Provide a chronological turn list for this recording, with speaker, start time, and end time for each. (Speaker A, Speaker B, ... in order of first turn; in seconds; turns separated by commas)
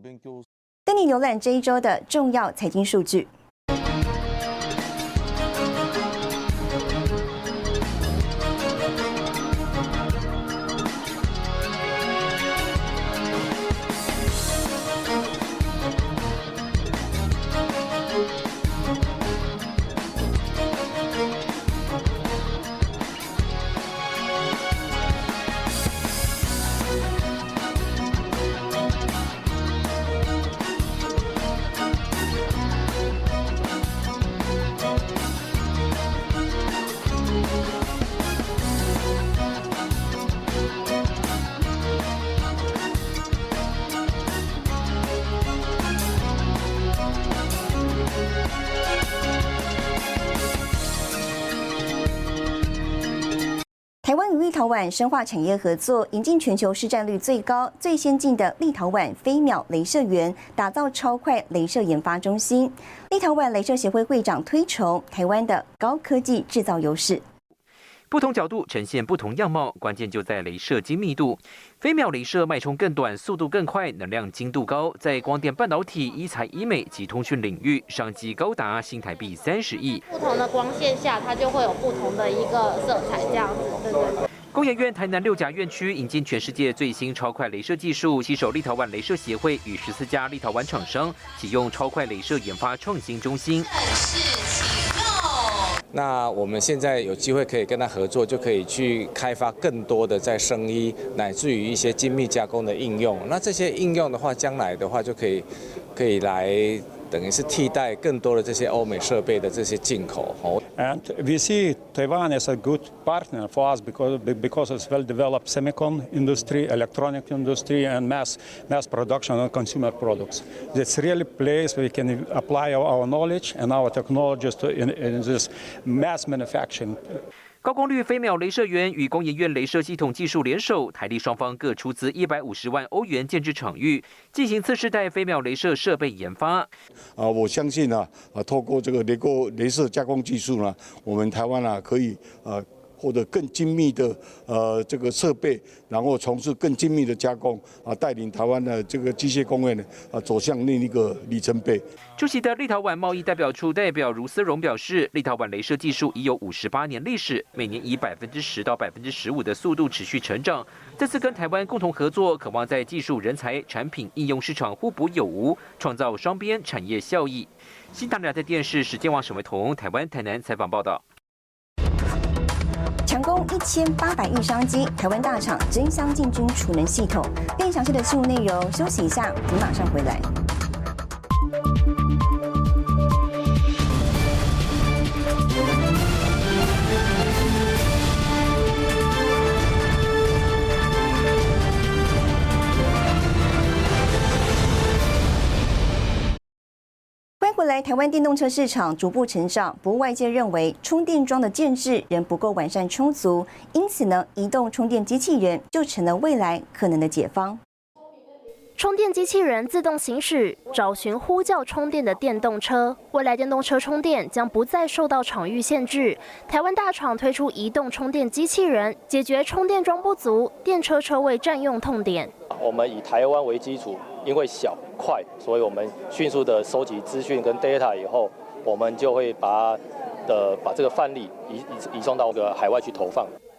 Speaker A: 0.8-3.3, Speaker A: 54.0-67.2, Speaker B: 68.1-80.0, Speaker C: 80.1-84.2, Speaker B: 84.5-93.7, Speaker D: 95.9-110.6, Speaker E: 110.8-127.0, Speaker B: 127.6-136.7, Speaker F: 137.2-151.8, Speaker B: 152.2-171.0, Speaker A: 173.1-180.2, Speaker A: 197.4-207.6, Speaker G: 208.8-222.3, Speaker H: 222.5-233.3